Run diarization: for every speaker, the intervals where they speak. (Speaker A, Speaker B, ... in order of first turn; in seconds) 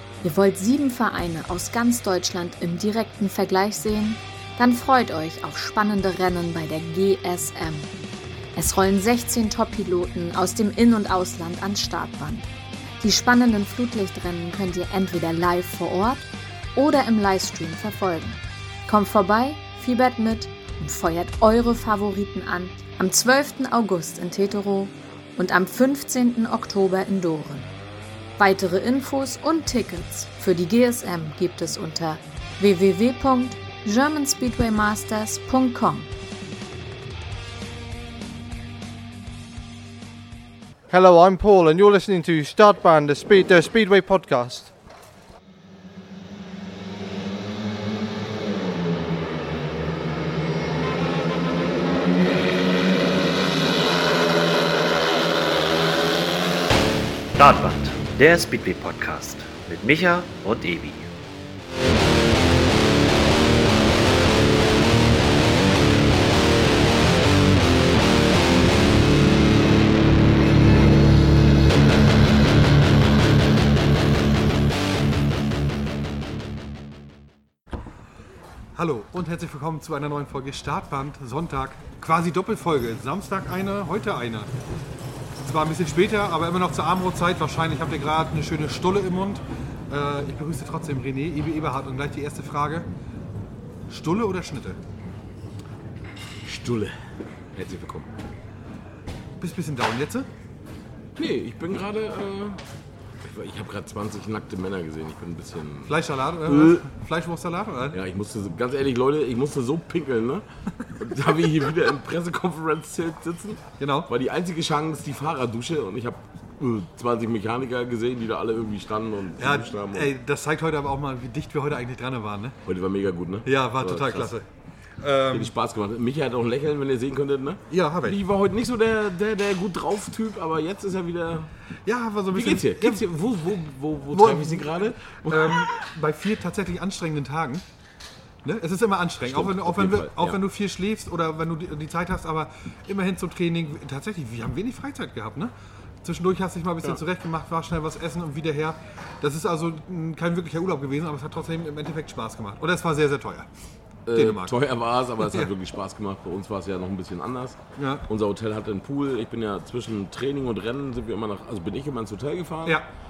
Speaker A: 0.2-7.9, 8.5-12.5, 13.0-27.7, 28.4-36.1
Speaker B: 40.9-44.7
Speaker C: 57.4-61.1
Speaker D: 78.8-84.5, 85.4-92.9, 93.9-94.8, 99.4-100.3, 105.9-108.0, 113.8-114.1, 119.4-122.6, 123.4-124.4, 125.0-125.5, 127.7-128.2, 131.8-133.0, 134.1-137.6, 138.4-145.5, 146.0-153.5, 154.1-154.6, 155.2-155.5, 157.8-158.0
Speaker E: 96.4-98.1, 101.2-102.6, 103.2-106.9, 107.9-120.1, 122.7-124.3, 125.3-131.5, 132.3-135.8, 139.2-140.4, 154.1-162.8